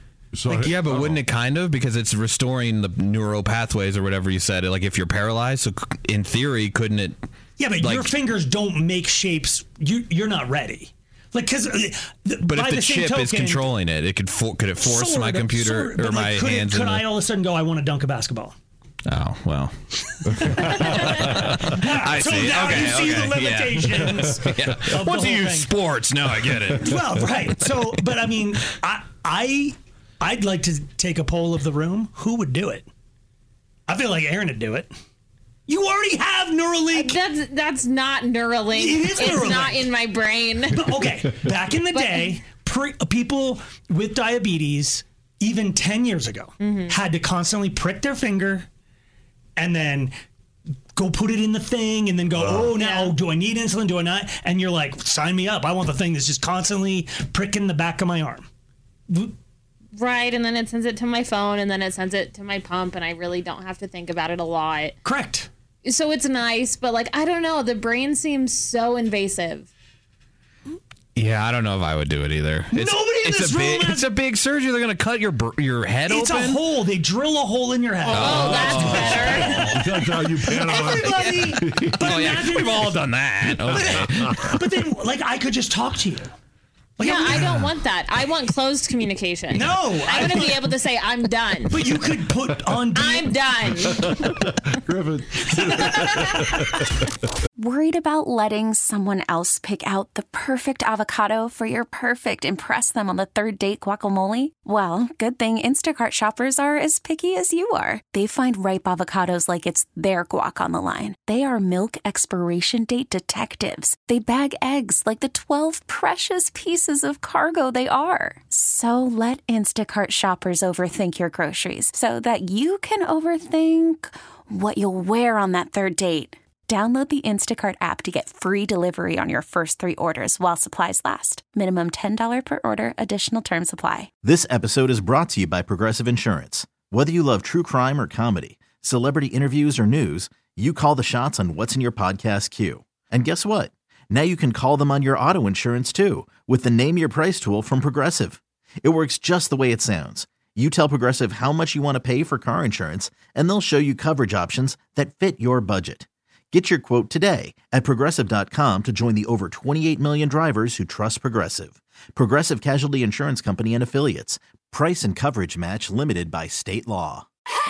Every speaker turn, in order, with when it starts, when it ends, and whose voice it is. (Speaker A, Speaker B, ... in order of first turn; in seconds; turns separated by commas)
Speaker A: 0.3-1.2, Speaker B: 0.5-7.2, Speaker C: 7.6-13.7, Speaker B: 7.8-8.1, Speaker B: 12.5-17.1, Speaker C: 14.8-18.5, Speaker B: 19.1-19.7, Speaker B: 20.2-27.1, Speaker A: 20.3-21.7, Speaker C: 21.6-25.7, Speaker C: 26.8-32.9, Speaker C: 33.9-34.9, Speaker C: 35.7-37.2, Speaker D: 36.9-41.0, Speaker C: 38.7-39.9, Speaker C: 40.7-48.7, Speaker D: 41.9-42.4, Speaker D: 46.6-47.0, Speaker C: 49.6-50.1, Speaker C: 51.0-58.5, Speaker A: 52.4-52.7, Speaker D: 52.8-53.1, Speaker D: 60.0-65.0, Speaker C: 65.0-65.5, Speaker D: 65.8-69.7, Speaker B: 71.2-76.7, Speaker C: 72.7-74.1, Speaker C: 76.1-79.3, Speaker B: 78.1-80.5, Speaker A: 78.2-82.4, Speaker D: 78.2-79.5, Speaker C: 80.4-83.0, Speaker B: 82.0-84.4, Speaker A: 83.5-84.6, Speaker C: 83.6-86.3, Speaker C: 87.0-87.7, Speaker D: 87.0-91.8, Speaker C: 89.5-90.8, Speaker C: 91.7-93.4, Speaker D: 93.0-94.4, Speaker A: 93.8-96.9, Speaker C: 95.6-96.5, Speaker E: 97.6-134.1, Speaker F: 134.2-167.3